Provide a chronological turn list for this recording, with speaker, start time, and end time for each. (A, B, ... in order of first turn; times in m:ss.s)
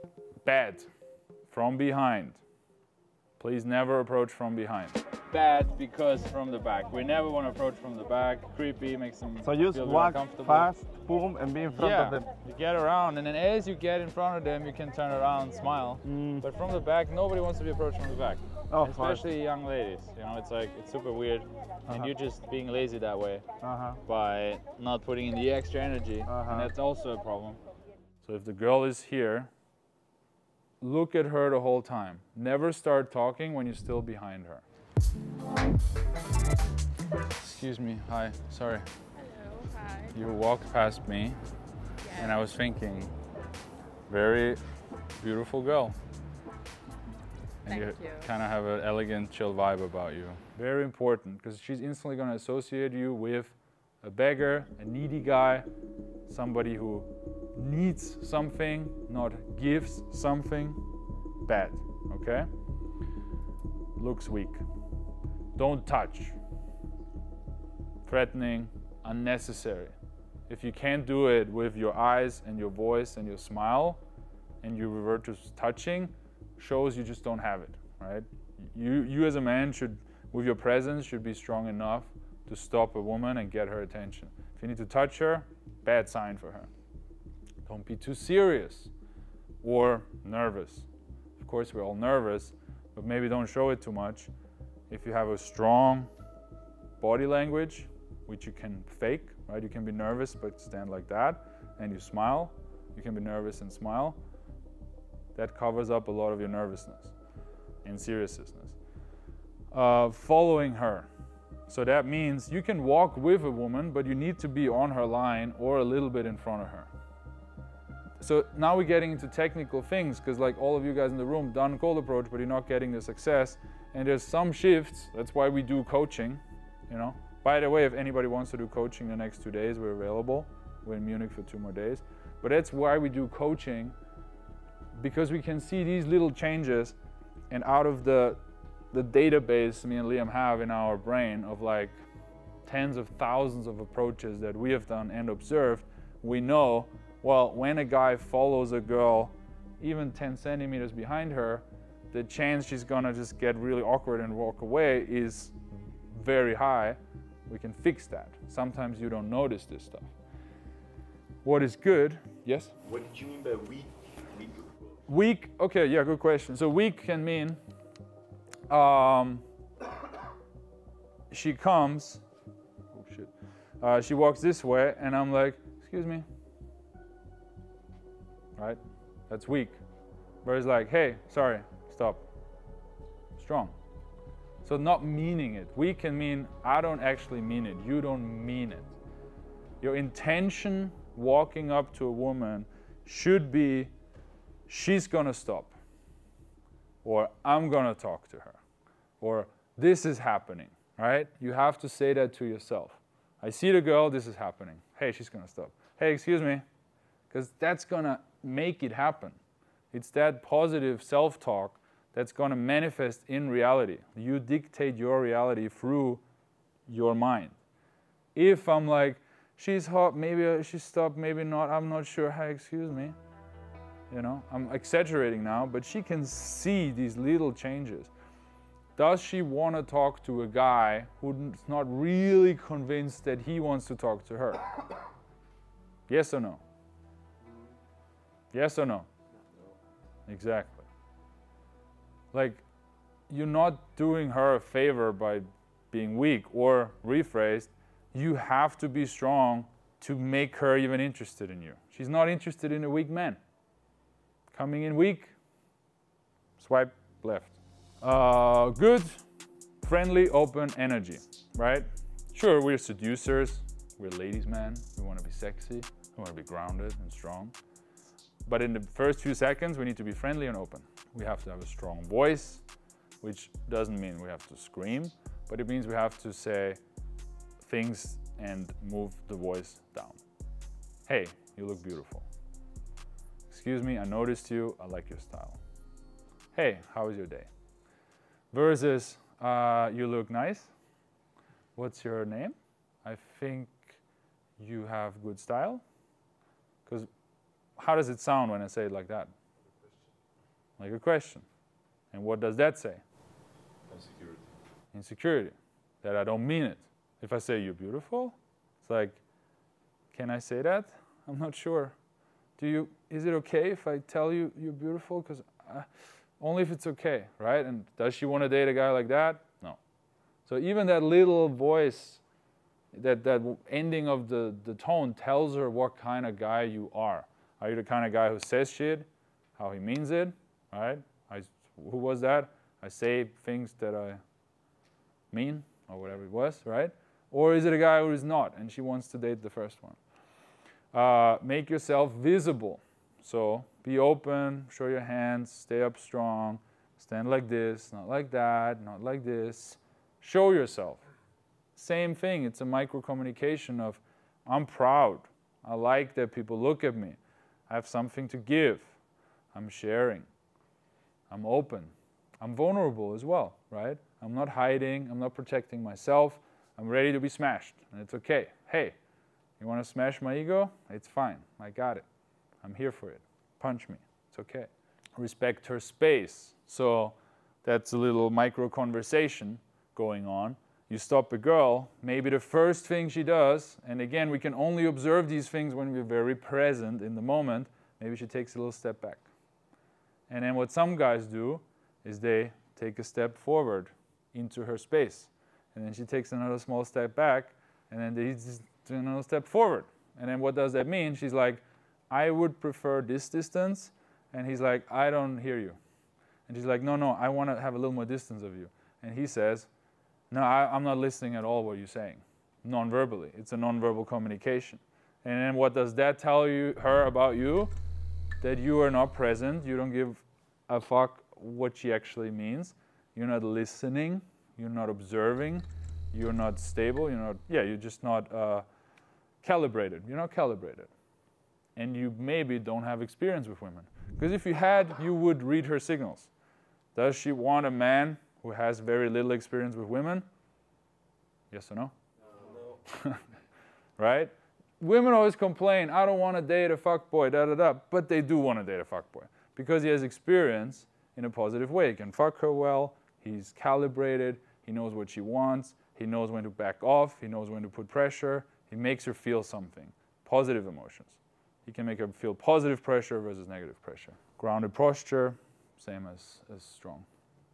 0:00.4-0:00.9 A
0:01.5-0:02.4 A
0:03.4-0:10.7 A
0:09.4-0:12.3 B
0:11.7-0:23.4 A
0:16.1-0:16.4 B
0:18.7-0:19.3 B
0:23.6-0:24.0 B
0:24.0-0:27.6 A
0:26.3-0:26.7 B
0:28.2-0:29.5 A
0:30.8-0:34.6 A
0:37.4-0:38.9 A
0:39.2-0:40.1 C
0:40.1-0:41.4 A
0:42.0-0:42.4 C
0:42.2-0:43.1 A
0:44.1-0:44.6 A
0:45.2-0:46.0 A
0:47.6-0:55.7 A
0:47.7-0:48.3 C
0:56.3-1:00.8 A
1:01.4-1:02.5 A
1:04.0-1:04.6 A
1:05.6-1:06.4 A
1:08.0-1:10.0 A
1:10.5-1:14.0 A
1:14.6-1:26.7 A
1:27.6-1:28.9 A
1:29.6-1:34.3 A
1:34.9-1:36.1 A
1:37.0-1:44.2 A
1:45.4-1:47.2 A
1:47.8-1:48.8 A
1:49.7-1:51.1 A
1:51.7-1:56.9 A
1:58.2-2:14.0 A
2:15.0-2:17.0 A
2:17.5-2:18.4 A
2:18.9-2:22.0 A
2:22.6-2:35.6 A
2:36.1-2:40.1 A
2:41.4-2:42.8 A
2:42.9-2:44.7 D
2:45.1-2:47.6 A
2:48.7-2:49.4 A
2:51.3-2:52.2 A
2:52.9-2:56.2 A
2:58.6-2:59.8 A
3:00.4-3:02.2 A
3:03.4-3:03.8 A
3:04.6-3:09.0 A
3:09.8-3:13.9 A
3:14.7-3:15.8 A
3:17.0-3:18.6 A
3:19.2-3:26.6 A
3:27.3-3:29.4 A
3:29.9-3:36.2 A
3:36.9-3:37.6 A
3:38.4-3:43.2 A
3:44.1-3:48.1 A
3:49.0-3:54.7 A
3:56.1-3:56.6 A
3:58.5-3:59.1 A
4:00.3-4:00.9 A
4:02.3-4:02.6 A
4:03.3-4:13.4 A
4:14.5-4:15.3 A
4:16.6-4:19.2 A
4:19.8-4:27.5 A
4:28.5-4:32.6 A
4:33.2-4:36.8 A
4:37.6-4:40.2 A
4:41.1-4:42.3 A
4:43.5-4:45.6 A
4:46.5-4:47.5 A
4:48.5-4:50.7 A
4:51.8-4:54.0 A
4:54.6-4:55.8 A
4:57.8-4:59.3 A
5:00.8-5:01.5 A
5:02.1-5:03.0 A
5:03.9-5:04.4 D
5:04.9-5:09.2 A
5:10.1-5:12.0 A
5:12.6-5:19.8 A
5:20.5-5:22.2 A
5:22.9-5:34.2 A
5:35.3-5:40.0 A
5:40.9-5:51.0 A
5:51.8-5:57.2 A
5:57.7-5:59.0 A
5:59.5-6:00.3 A
6:01.3-6:09.0 A
6:09.6-6:12.0 A
6:12.6-6:29.2 A
6:30.3-6:45.8 A
6:46.5-6:49.7 A
6:50.3-6:57.7 A
6:58.4-7:08.6 A
7:09.4-7:10.9 A
7:11.8-7:16.3 A
7:17.0-7:20.3 A
7:21.5-7:21.9 A
7:22.8-7:23.2 A
7:24.0-7:47.1 A